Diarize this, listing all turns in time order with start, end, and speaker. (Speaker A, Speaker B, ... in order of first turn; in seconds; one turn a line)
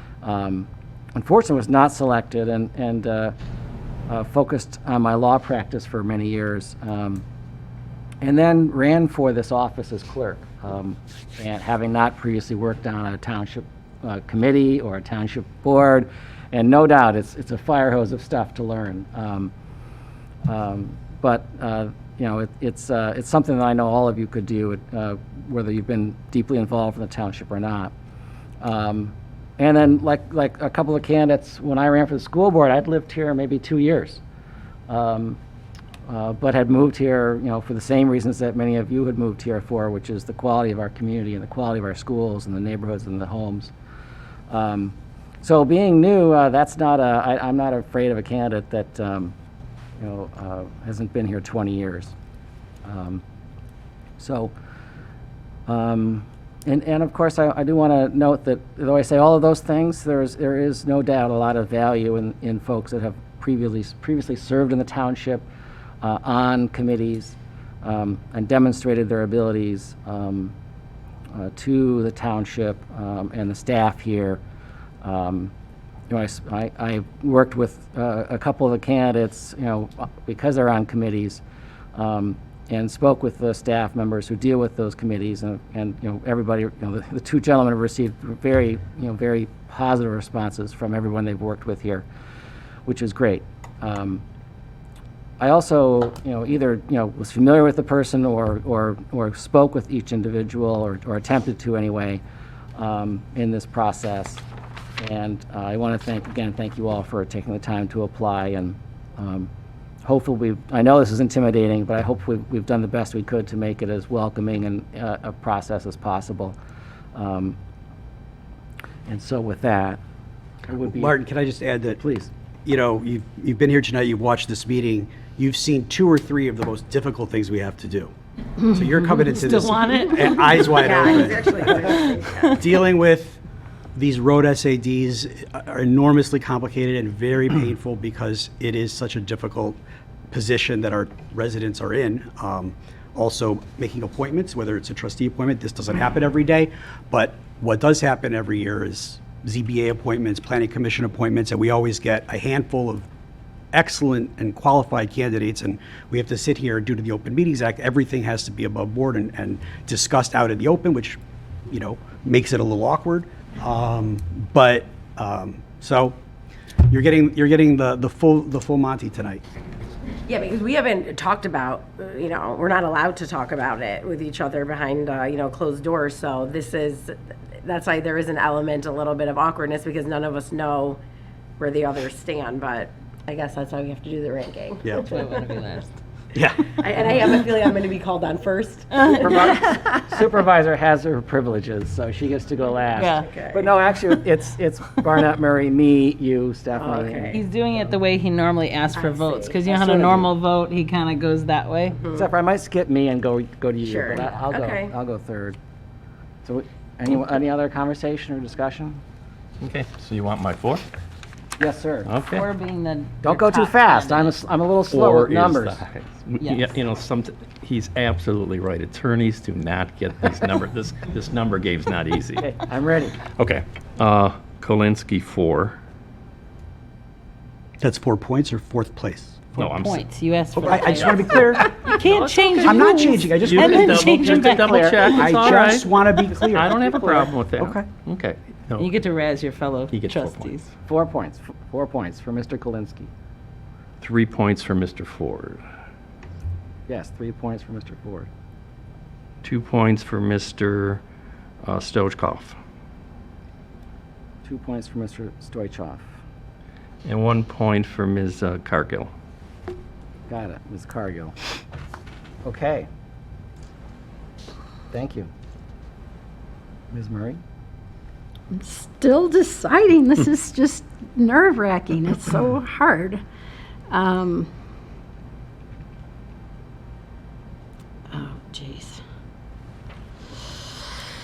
Speaker A: 0.2-3.3
Speaker A: 4.1-7.2
Speaker A: 8.2-19.5
Speaker A: 20.5-27.9
Speaker A: 28.6-34.2
Speaker A: 34.9-35.4
Speaker A: 36.1-43.7
Speaker A: 44.5-49.4
Speaker A: 50.0-52.1
Speaker A: 52.9-53.2
Speaker A: 54.2-54.5
Speaker A: 55.7-65.5
Speaker A: 66.0-70.5
Speaker A: 71.3-74.4
Speaker A: 75.0-75.5
Speaker A: 76.1-81.4
Speaker A: 82.0-92.1
Speaker A: 92.9-94.2
Speaker A: 95.4-102.2
Speaker A: 102.8-104.5
Speaker A: 105.0-109.5
Speaker A: 110.0-116.6
Speaker A: 117.1-117.6
Speaker A: 119.1-120.0
Speaker A: 120.7-121.2
Speaker B: 120.9-122.0
Speaker A: 122.0-122.3
Speaker B: 122.7-128.1
Speaker B: 128.6-131.8
Speaker C: 129.3-130.7
Speaker D: 130.6-132.6
Speaker C: 131.9-132.6
Speaker B: 132.5-133.4
Speaker B: 133.9-139.8
Speaker B: 140.3-153.1
Speaker B: 153.7-166.2
Speaker B: 166.9-169.4
Speaker D: 170.3-181.0
Speaker D: 181.6-185.3
Speaker C: 185.0-185.9
Speaker B: 186.3-186.7
Speaker D: 186.7-190.1
Speaker A: 189.2-197.4
Speaker C: 193.0-193.3
Speaker D: 193.1-193.7
Speaker D: 196.7-197.4
Speaker C: 197.3-202.0
Speaker D: 198.9-200.3
Speaker D: 201.9-202.3
Speaker A: 202.1-205.6
Speaker D: 203.8-204.9
Speaker A: 206.4-209.0
Speaker E: 209.6-210.8
Speaker A: 211.6-212.1
Speaker E: 212.1-212.4
Speaker C: 212.2-214.4
Speaker A: 213.2-215.8
Speaker E: 214.9-222.5
Speaker C: 216.4-216.8
Speaker A: 222.4-223.2
Speaker E: 223.2-225.8
Speaker B: 227.8-229.7
Speaker E: 229.6-230.0
Speaker C: 229.7-235.5
Speaker B: 230.6-231.7
Speaker E: 230.9-232.9
Speaker B: 232.6-234.3
Speaker E: 233.4-238.9
Speaker B: 234.9-237.9
Speaker C: 238.8-240.7
Speaker E: 239.9-240.7
Speaker A: 240.9-243.1
Speaker E: 244.0-245.6
Speaker A: 246.9-248.3
Speaker E: 249.4-251.0
Speaker E: 251.6-252.6
Speaker A: 254.4-256.1
Speaker E: 257.1-259.1
Speaker A: 260.3-261.4
Speaker A: 262.4-262.9
Speaker A: 264.9-265.3
Speaker A: 266.9-267.4
Speaker F: 268.5-273.2
Speaker F: 273.9-274.5
Speaker F: 278.1-279.0